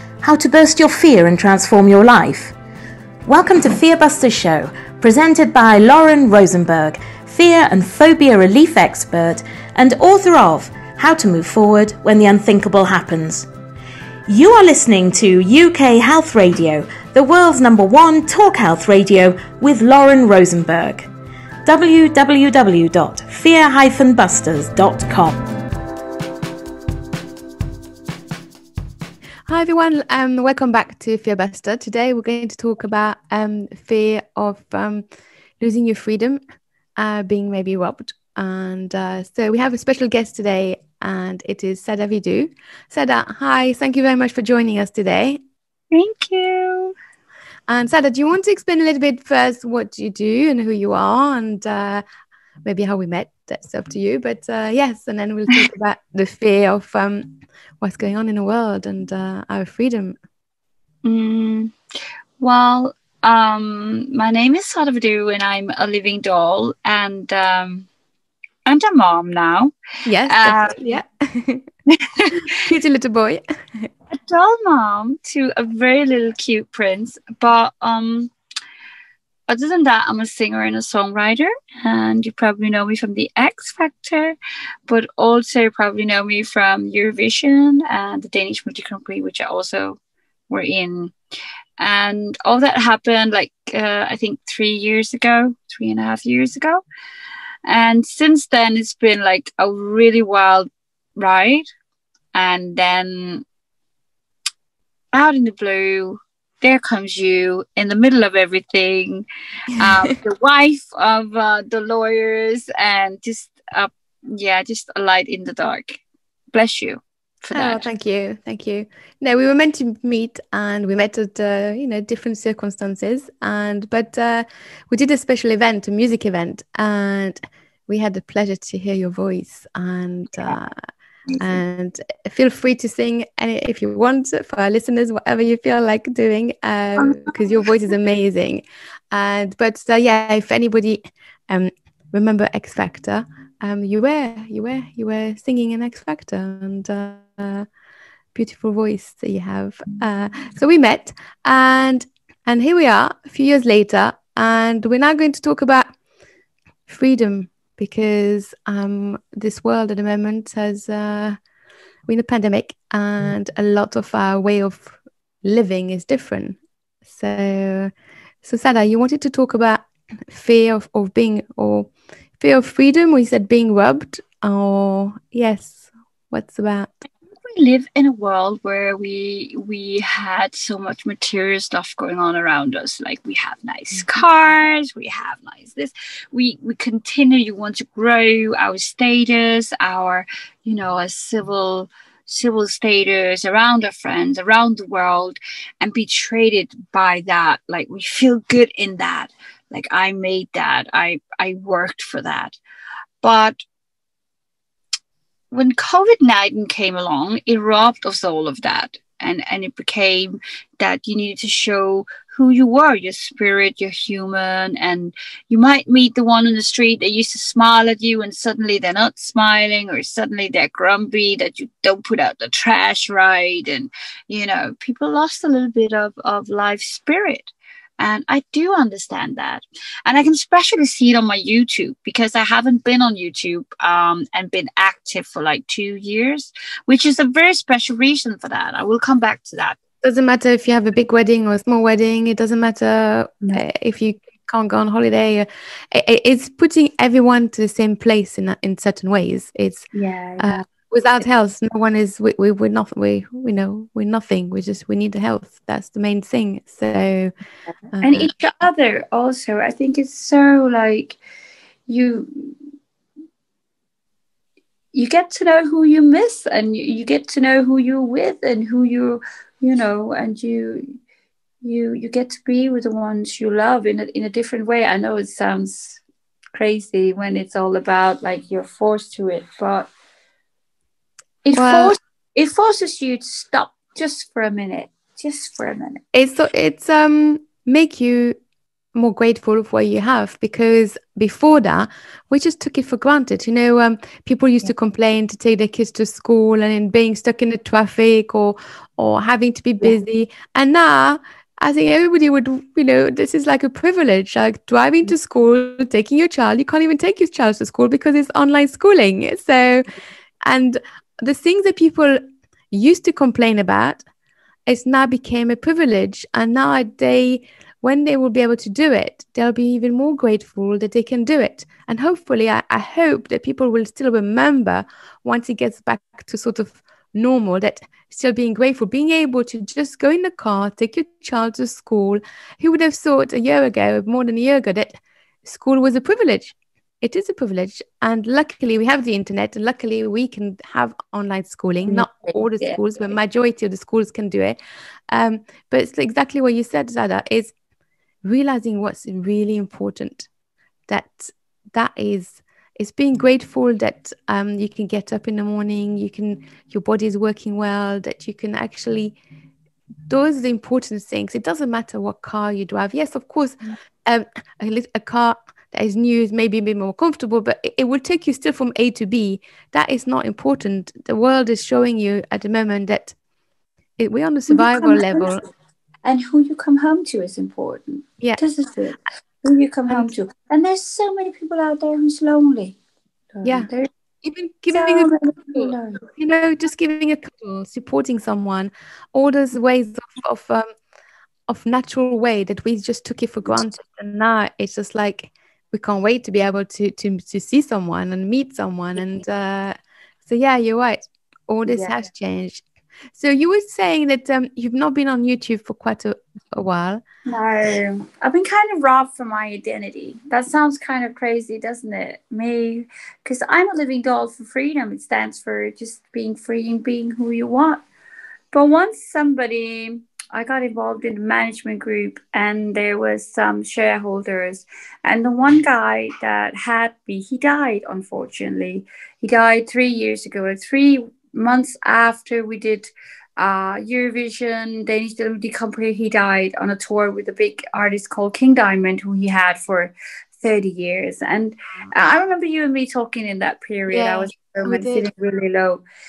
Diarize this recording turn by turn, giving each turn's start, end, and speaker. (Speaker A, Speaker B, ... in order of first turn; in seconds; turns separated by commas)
Speaker A: 0.2-2.5, Speaker A: 3.3-13.5, Speaker A: 14.3-21.1, Speaker A: 21.6-25.4, Speaker B: 29.5-35.0, Speaker B: 35.6-36.4, Speaker B: 37.0-45.4, Speaker C: 45.9-46.9, Speaker B: 47.7-52.0, Speaker B: 52.6-60.2, Speaker C: 61.0-61.7, Speaker C: 62.4-67.9, Speaker C: 68.7-69.7, Speaker B: 70.0-71.7, Speaker C: 70.3-70.8, Speaker C: 71.9-72.5, Speaker B: 72.3-73.9, Speaker C: 74.1-78.3, Speaker C: 79.5-84.3, Speaker C: 84.9-90.0, Speaker C: 90.5-91.1, Speaker C: 91.8-96.8, Speaker C: 97.7-101.7, Speaker C: 102.3-103.4, Speaker C: 105.1-116.0, Speaker B: 109.8-110.1, Speaker C: 116.5-117.9, Speaker B: 117.5-130.8, Speaker C: 131.3-131.6, Speaker B: 131.4-147.7, Speaker C: 137.0-137.4, Speaker B: 148.3-155.9, Speaker B: 156.9-161.4, Speaker B: 162.1-167.9, Speaker B: 168.4-176.9, Speaker C: 177.4-202.6, Speaker C: 203.2-203.6, Speaker C: 205.5-239.8, Speaker B: 240.0-257.3, Speaker C: 249.9-250.6, Speaker B: 257.9-258.3, Speaker C: 258.0-261.2, Speaker C: 261.9-262.6, Speaker C: 264.9-270.9, Speaker C: 271.6-276.0, Speaker C: 276.5-279.9, Speaker C: 281.4-286.0, Speaker B: 281.5-281.9, Speaker B: 286.1-288.4, Speaker B: 288.9-309.9, Speaker B: 310.4-312.2, Speaker B: 312.7-314.0, Speaker B: 314.6-344.6, Speaker C: 341.9-342.8, Speaker B: 345.1-347.5, Speaker B: 348.2-350.3, Speaker B: 350.9-359.1, Speaker B: 360.1-373.1, Speaker B: 374.0-375.4, Speaker C: 374.5-375.4, Speaker C: 376.0-382.8, Speaker C: 383.3-383.9, Speaker B: 383.4-383.7, Speaker B: 384.2-390.7, Speaker C: 384.7-386.0, Speaker B: 391.5-407.0, Speaker C: 401.7-401.9, Speaker C: 407.3-417.8, Speaker C: 418.5-445.8, Speaker B: 443.9-445.1